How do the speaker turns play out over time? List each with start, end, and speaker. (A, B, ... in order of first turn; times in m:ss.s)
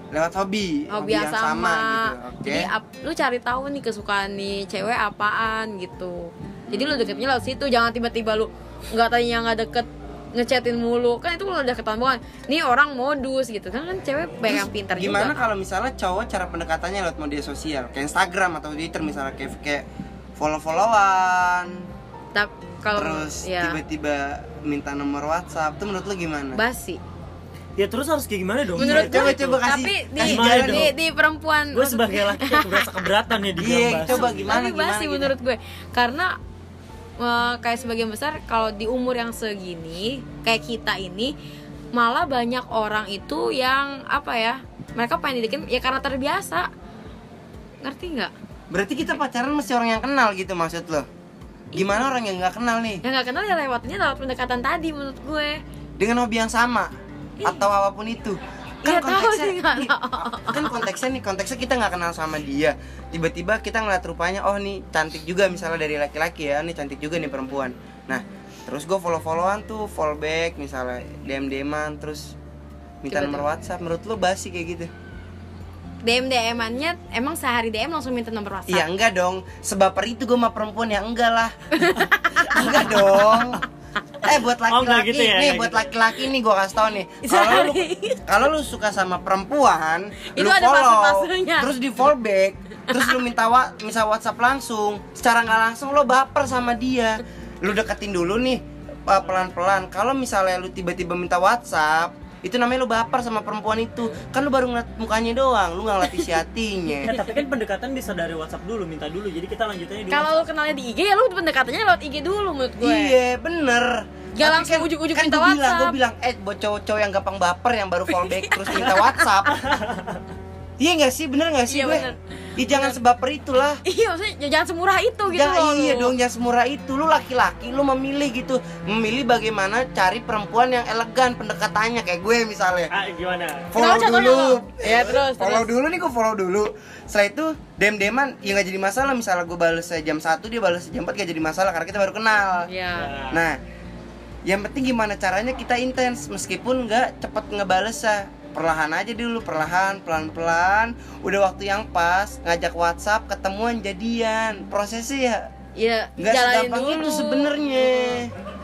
0:00.1-0:02.7 A
0:00.9-0:15.4 B
0:06.7-0:07.3 A
0:14.5-0:19.8 A
0:20.4-0:21.9 A
0:22.3-0:23.8 B
0:22.9-0:26.6 A
0:26.5-0:27.0 B
0:27.8-0:29.6 C
0:28.8-0:32.9 B
0:28.8-0:30.9 A
0:30.2-0:30.9 C
0:31.7-0:34.4 C
0:33.6-0:35.3 A
0:34.0-0:36.4 B
0:37.2-0:41.3 B
0:41.9-0:46.7 B
0:47.8-0:48.3 B
0:48.7-0:51.1 A
0:51.7-0:53.0 A
0:51.8-0:52.1 B
0:53.0-0:55.6 B
0:56.0-1:12.4 A
0:58.8-1:00.9 B
1:13.0-1:14.9 A
1:13.1-1:13.4 B
1:16.0-1:18.9 B
1:18.7-1:21.8 A
1:21.7-1:23.3 B
1:22.4-1:23.6 A
1:24.2-1:47.2 A
1:24.7-1:25.9 C
1:27.2-1:28.3 B
1:30.3-1:31.7 B
1:32.9-1:33.2 B
1:47.0-1:50.5 C
1:50.1-1:53.2 B
1:52.8-1:59.6 A
1:54.4-1:56.0 B
1:58.1-1:59.2 B
1:59.5-2:00.2 C
2:00.8-2:03.8 A
2:01.7-2:03.0 B
2:03.8-2:06.1 B
2:05.3-2:12.9 A
2:12.9-2:13.8 C
2:13.7-2:22.7 A
2:13.8-2:15.7 B
2:22.7-2:23.1 B
2:23.0-2:23.4 C
2:23.3-2:23.6 A
2:24.4-2:35.5 A
2:35.8-2:38.2 B
2:36.2-2:38.3 A